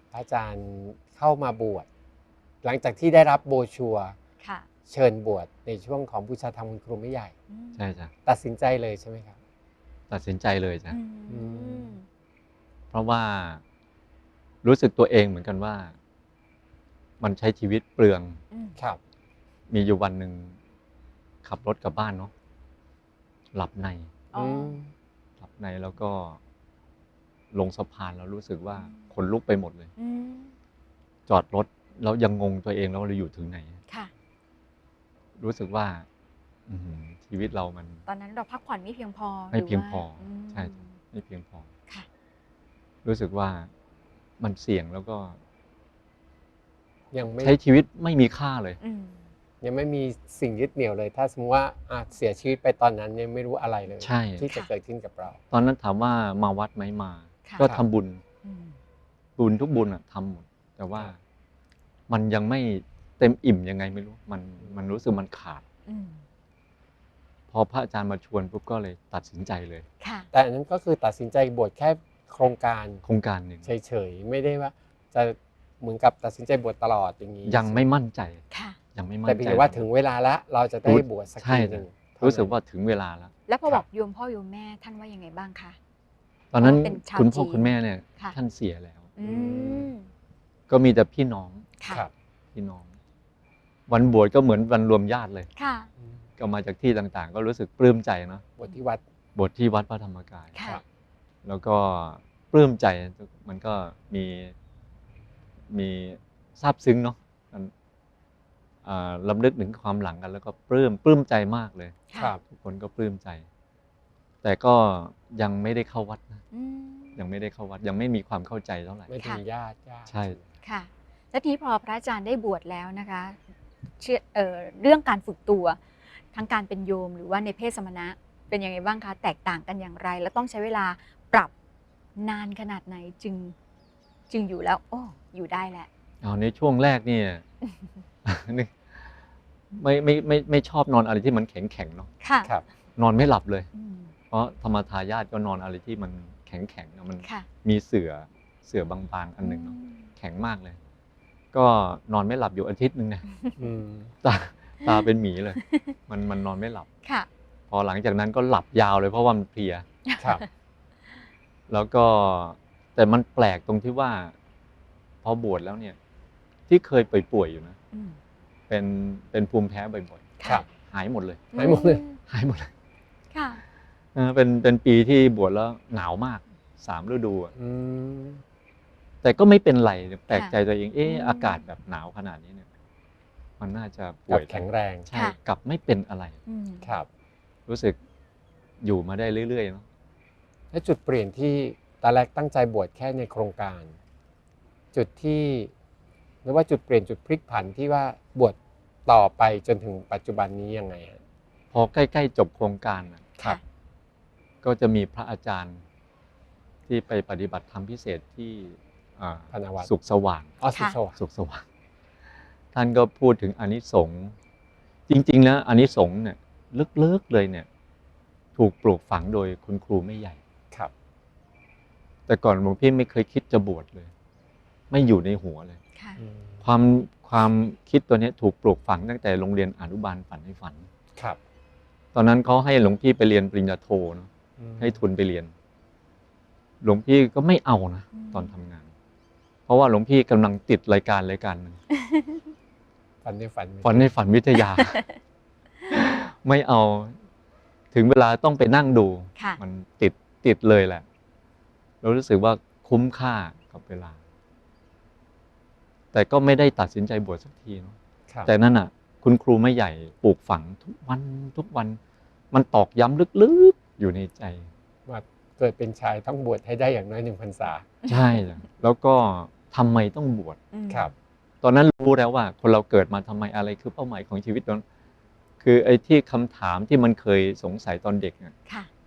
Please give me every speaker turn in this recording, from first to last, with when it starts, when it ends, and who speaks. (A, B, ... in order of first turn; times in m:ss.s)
0:00.1-0:01.9 A
0:02.6-0:04.2 A
0:04.4-0:04.7 B
0:04.9-0:07.3 A
0:07.5-0:07.8 B
0:07.8-0:08.1 C
0:08.2-0:09.4 A
0:10.1-0:11.0 C
0:10.9-0:12.0 B
0:11.3-0:12.0 A
0:12.9-0:13.6 C
0:14.6-0:16.0 C
0:17.2-0:18.4 C
0:18.5-0:18.8 B
0:19.7-0:20.6 C
0:21.4-0:22.3 C
0:23.5-0:24.2 C
0:24.3-0:24.8 B
0:24.3-0:24.9 A
0:25.4-0:26.4 C
0:27.5-0:29.9 C
0:28.8-0:29.0 B
0:30.0-0:30.6 B
0:31.3-0:33.8 C
0:35.4-0:36.0 C
0:36.7-0:38.0 C
0:38.1-0:41.0 B
0:39.5-0:41.7 C
0:43.0-0:43.7 C
0:44.4-0:45.4 C
0:47.1-0:47.6 A
0:47.4-0:48.8 C
0:48.8-0:49.3 B
0:49.6-0:55.4 A
0:54.0-0:54.5 C
0:55.5-0:58.2 C
0:57.5-0:57.7 B
0:58.4-0:58.8 B
0:59.4-1:01.2 C
1:02.1-1:05.6 C
1:05.8-1:06.2 B
1:07.5-1:09.8 C
1:10.0-1:10.3 B
1:10.3-1:13.0 A
1:13.0-1:13.7 C
1:13.6-1:17.8 A
1:17.5-1:18.4 C
1:18.5-1:18.8 B
1:18.9-1:19.8 C
1:19.2-1:22.6 A
1:20.8-1:23.3 C
1:23.5-1:25.8 B
1:26.5-1:29.1 C
1:26.6-1:28.4 B
1:29.2-1:30.1 B
1:29.2-1:29.9 A
1:30.7-1:31.7 C
1:31.8-1:32.0 B
1:32.5-1:32.9 C
1:33.9-1:35.5 C
1:35.6-1:35.9 B
1:36.4-1:38.5 C
1:38.6-1:39.0 A
1:39.3-1:40.6 C
1:40.5-1:40.8 B
1:41.4-1:44.5 C
1:45.7-1:47.7 C
1:48.8-1:52.0 C
1:52.1-1:52.4 A
1:52.5-1:53.5 C
1:54.4-1:56.4 C
1:56.5-1:57.2 B
1:57.2-1:59.1 C
1:59.1-2:00.4 A
2:00.1-2:00.4 C
2:00.6-2:03.4 B
2:04.0-2:05.8 B
2:06.3-2:11.5 B
2:12.2-2:13.5 B
2:14.3-2:15.9 B
2:16.2-2:17.4 C
2:18.2-2:19.2 C
2:19.7-2:22.1 C
2:22.2-2:22.5 B
2:23.0-2:23.7 C
2:23.7-2:24.1 B
2:24.3-2:30.8 C
2:29.4-2:30.1 B
2:31.5-2:33.2 C
2:33.6-2:34.1 A
2:34.2-2:36.9 C
2:35.6-2:35.9 B
2:37.7-2:39.8 C
2:40.1-2:40.4 B
2:40.2-2:40.4 A
2:41.7-2:44.3 C
2:45.2-2:46.0 C
2:46.7-2:47.8 C
2:47.9-2:48.2 B
2:48.7-2:51.6 C
2:50.4-2:50.6 B
2:51.5-2:52.2 B
2:51.6-2:52.0 A
2:52.2-2:52.7 C
2:53.3-2:53.6 B
2:54.1-2:57.5 C
2:57.5-2:58.4 A
2:59.2-3:02.7 C
3:00.3-3:01.6 B
3:03.6-3:06.4 C
3:04.3-3:05.1 A
3:06.5-3:06.9 B
3:06.8-3:07.1 A
3:07.7-3:08.0 C
3:08.8-3:09.8 C
3:10.7-3:14.0 A
3:14.9-3:15.7 A
3:16.4-3:21.2 A
3:21.7-3:23.3 C
3:24.6-3:25.8 C
3:26.9-3:30.6 C
3:29.5-3:29.9 A
3:30.6-3:31.2 A
3:31.2-3:31.6 C
3:32.7-3:34.3 C
3:35.1-3:37.7 C
3:38.6-3:40.4 C
3:42.3-3:44.1 C
3:44.9-3:45.8 C
3:46.2-3:46.6 A
3:46.6-3:50.9 C
3:52.1-3:55.5 C
3:54.6-3:55.0 A
3:56.8-3:58.9 C
3:58.1-3:58.5 B
3:59.7-4:01.8 C
4:01.9-4:02.4 B
4:03.2-4:04.1 A
4:03.8-4:05.0 C
4:04.7-4:05.1 B
4:05.9-4:07.2 C
4:07.9-4:11.1 C
4:12.0-4:14.2 C
4:16.1-4:22.0 C
4:22.5-4:24.7 C
4:25.1-4:27.9 A
4:28.1-4:30.6 C
4:30.7-4:31.1 B
4:31.6-4:34.8 C
4:35.6-4:38.5 C